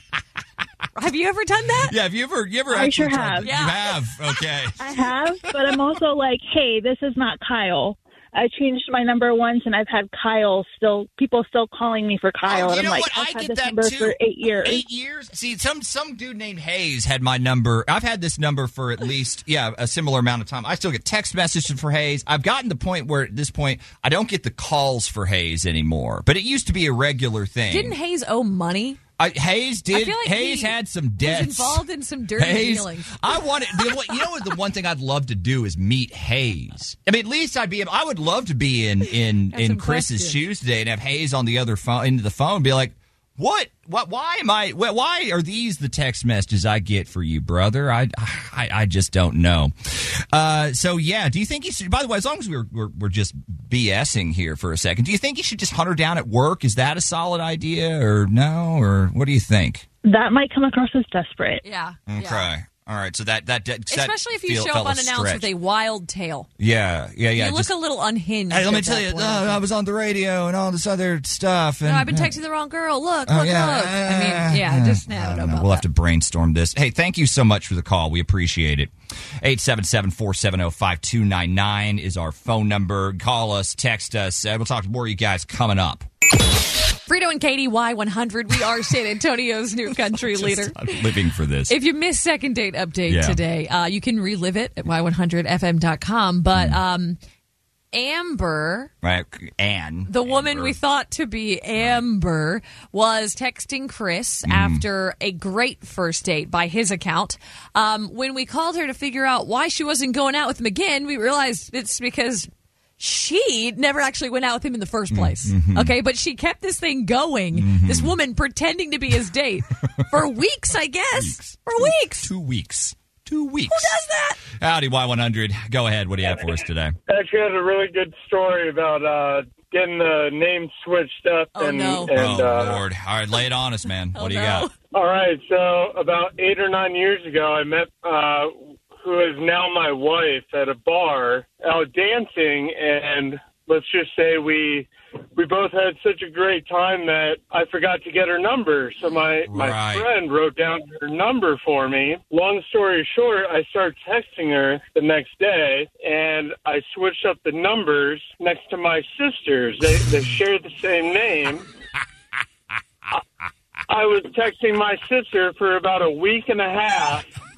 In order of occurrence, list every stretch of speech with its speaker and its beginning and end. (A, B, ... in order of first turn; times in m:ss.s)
0:00.9-0:01.9 A
0:01.8-0:04.8 B
0:02.7-0:03.5 C
0:03.4-0:04.0 A
0:04.8-0:14.8 C
0:12.4-0:28.0 B
0:27.7-0:29.0 A
0:29.2-0:31.8 B
0:29.9-0:33.2 A
0:32.4-0:59.8 B
0:39.5-0:40.4 A
1:00.0-1:01.6 C
1:01.6-1:02.5 A
1:02.1-1:05.5 B
1:03.9-1:06.5 A
1:06.6-1:07.7 B
1:07.3-1:09.6 A
1:08.5-1:12.3 B
1:11.8-1:15.8 A
1:13.3-1:26.1 B
1:27.1-1:30.9 A
1:30.1-1:31.7 B
1:31.7-1:37.2 A
1:33.1-1:33.4 B
1:37.9-1:38.9 A
1:39.0-1:40.8 B
1:40.1-2:02.3 A
1:41.8-1:42.0 B
1:44.4-1:44.8 B
1:55.1-1:55.9 B
1:57.5-1:58.1 B
2:01.1-2:07.0 B
2:03.7-2:04.4 A
2:07.1-2:12.8 D
2:11.5-2:12.2 A
2:12.1-2:14.7 B
2:14.2-2:14.7 A
2:14.9-2:41.6 D
2:29.4-2:30.1 B
2:43.9-2:47.3 D